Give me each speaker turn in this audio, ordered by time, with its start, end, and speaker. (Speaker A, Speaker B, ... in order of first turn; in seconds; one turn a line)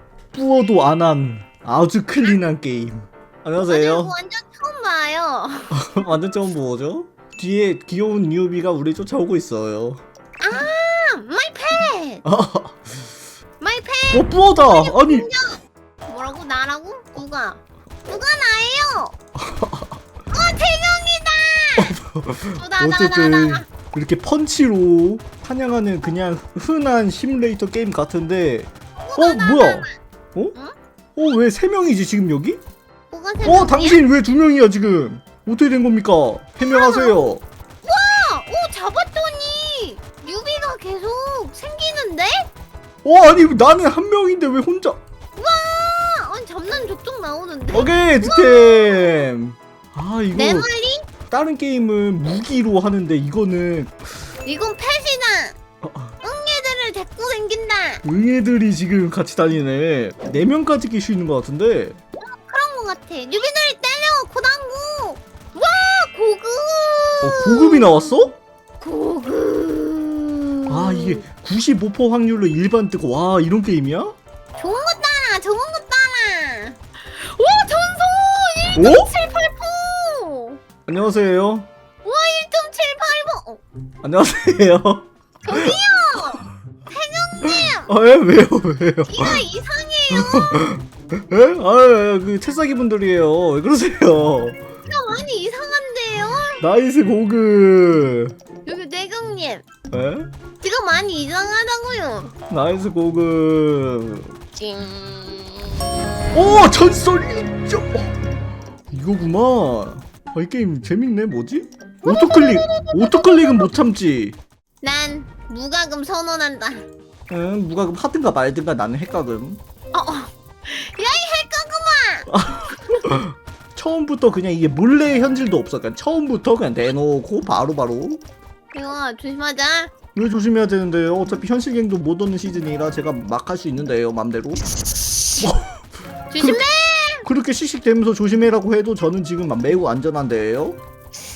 Speaker A: 0.3-4.1
Speaker B: 3.6-5.7
Speaker A: 5.7-10.0
Speaker B: 10.4-12.2
Speaker A: 12.2-13.0
Speaker B: 13.6-19.1
Speaker A: 14.1-15.3
Speaker A: 19.4-20.0
Speaker B: 20.3-22.0
Speaker A: 21.8-30.5
Speaker B: 22.5-23.6
Speaker B: 29.0-29.9
Speaker A: 31.1-32.6
Speaker B: 33.1-34.0
Speaker A: 33.4-37.4
Speaker B: 36.7-37.1
Speaker B: 37.8-42.5
Speaker A: 43.0-45.0
Speaker B: 45.4-49.3
Speaker A: 47.7-50.7
Speaker B: 50.3-51.1
Speaker A: 51.3-54.0
Speaker B: 54.4-55.6
Speaker A: 55.8-56.1
Speaker B: 56.2-58.0
Speaker A: 58.0-62.0
Speaker B: 62.2-68.1
Speaker A: 67.2-68.4
Speaker B: 68.8-71.2
Speaker A: 70.7-74.2
Speaker B: 74.6-80.6
Speaker A: 78.7-79.1
Speaker A: 80.8-81.7
Speaker B: 82.0-83.6
Speaker A: 84.0-85.8
Speaker B: 85.4-87.9
Speaker A: 87.4-89.4
Speaker B: 89.1-90.6
Speaker A: 90.1-94.6
Speaker B: 94.9-96.7
Speaker A: 96.6-98.3
Speaker B: 98.7-99.7
Speaker A: 99.9-100.3
Speaker B: 100.6-102.3
Speaker A: 102.5-104.3
Speaker B: 104.5-106.5
Speaker A: 106.3-108.1
Speaker A: 108.9-114.4
Speaker B: 112.0-113.7
Speaker B: 114.8-116.8
Speaker A: 117.3-119.6
Speaker B: 119.9-122.3
Speaker A: 122.3-128.2
Speaker B: 128.7-129.9
Speaker A: 130.1-134.7
Speaker A: 135.4-135.7
Speaker B: 136.3-137.2
Speaker A: 136.4-136.6
Speaker A: 137.2-140.8